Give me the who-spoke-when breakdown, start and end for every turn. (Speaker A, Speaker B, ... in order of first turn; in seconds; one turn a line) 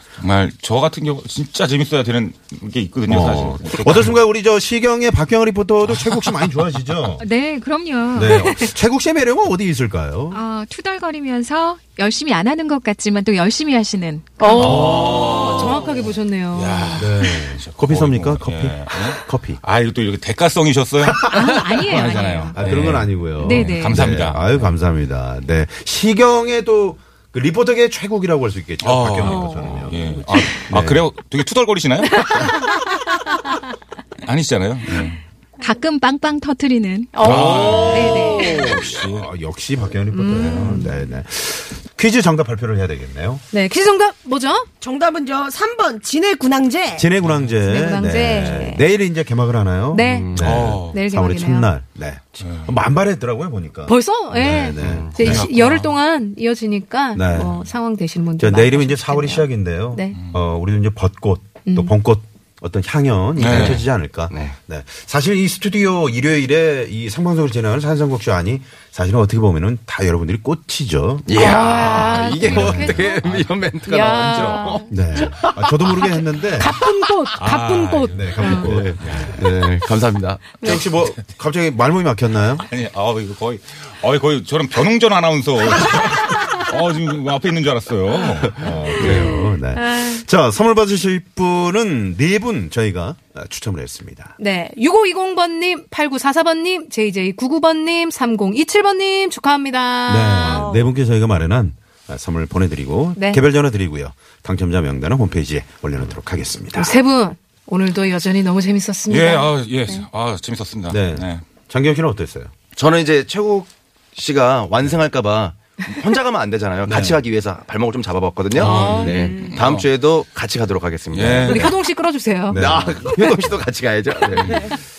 Speaker A: 0.2-4.2
Speaker B: 3.1-7.2
Speaker A: 5.8-6.2
Speaker C: 7.2-8.3
Speaker B: 8.1-10.4
Speaker D: 8.3-8.6
Speaker C: 10.3-14.7
Speaker D: 14.4-17.0
Speaker B: 14.6-15.4
Speaker A: 14.6-15.8
Speaker A: 16.5-24.7
Speaker B: 17.0-19.6
Speaker B: 21.0-21.5
Speaker C: 21.4-22.2
Speaker D: 21.4-22.6
Speaker B: 22.5-31.1
Speaker D: 23.4-23.9
Speaker A: 28.8-32.6
Speaker D: 29.2-29.9
Speaker A: 34.2-35.2
Speaker C: 35.6-37.1
Speaker D: 37.1-38.8
Speaker A: 37.2-39.3
Speaker B: 37.2-43.4
Speaker D: 40.1-41.0
Speaker A: 40.4-40.7
Speaker D: 43.5-44.7
Speaker E: 44.8-47.1
Speaker B: 47.0-55.5
Speaker A: 47.2-47.5
Speaker D: 47.6-48.8
Speaker D: 49.9-51.7
Speaker F: 50.0-50.5
Speaker A: 50.4-51.0
Speaker A: 52.4-52.8
Speaker D: 53.9-60.1
Speaker F: 54.8-55.2
Speaker A: 55.1-55.9
Speaker B: 57.1-57.7
Speaker B: 58.4-71.8
Speaker A: 60.1-60.4
Speaker D: 61.6-61.9
Speaker A: 63.4-63.9
Speaker F: 63.5-64.5
Speaker F: 71.2-76.1
Speaker D: 71.3-74.9
Speaker B: 72.4-73.0
Speaker B: 74.9-76.8
Speaker D: 75.9-78.8
Speaker A: 77.4-79.3
Speaker B: 78.1-79.7
Speaker F: 78.5-80.6
Speaker D: 80.6-80.9
Speaker B: 80.6-82.6
Speaker A: 82.6-89.0
Speaker B: 88.5-94.3
Speaker D: 89.0-90.2
Speaker D: 94.4-100.9
Speaker B: 100.1-106.9
Speaker D: 103.2-103.4
Speaker D: 106.7-109.5
Speaker A: 109.1-111.4
Speaker B: 110.9-112.5
Speaker F: 112.7-121.8
Speaker B: 116.8-117.2
Speaker A: 118.5-119.9
Speaker D: 118.6-119.5
Speaker A: 121.1-121.7
Speaker D: 121.4-123.2
Speaker B: 122.5-123.5
Speaker F: 122.5-124.6